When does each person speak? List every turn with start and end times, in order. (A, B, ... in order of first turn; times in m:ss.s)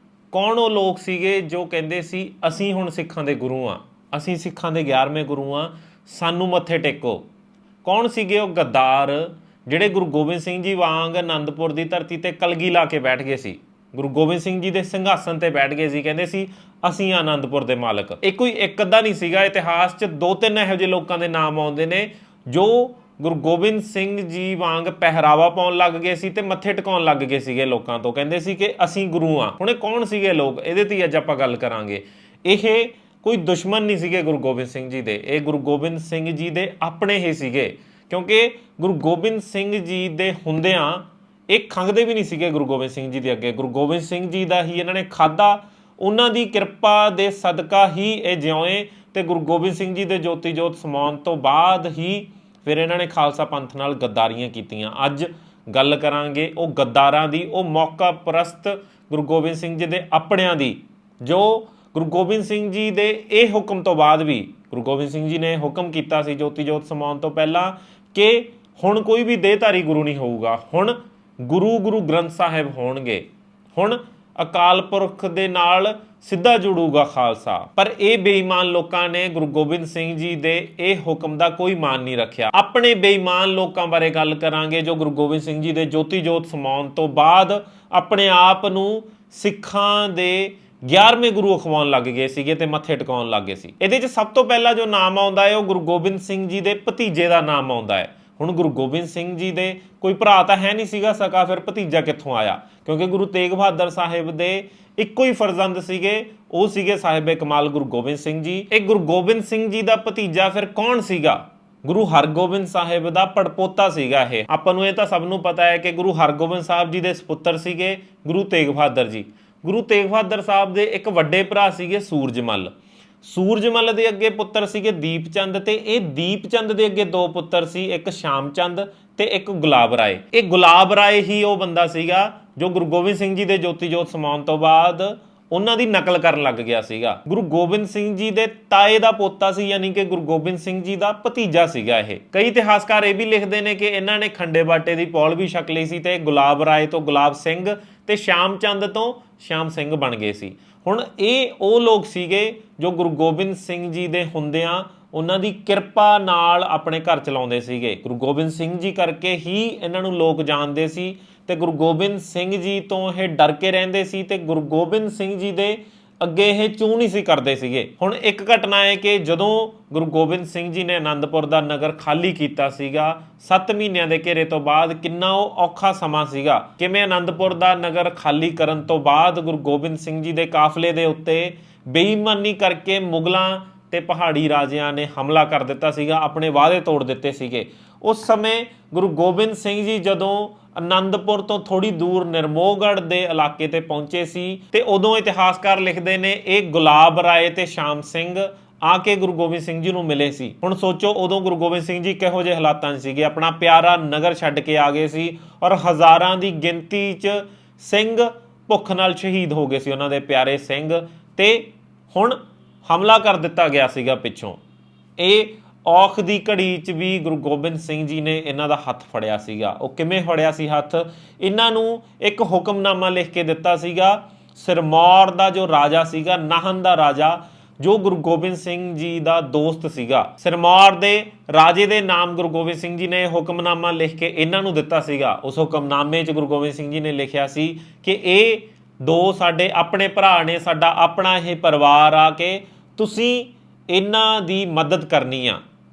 0:00.3-0:07.2 A
0:07.8-2:02.7 A
2:03.2-3:34.6 A
3:35.2-4:05.6 A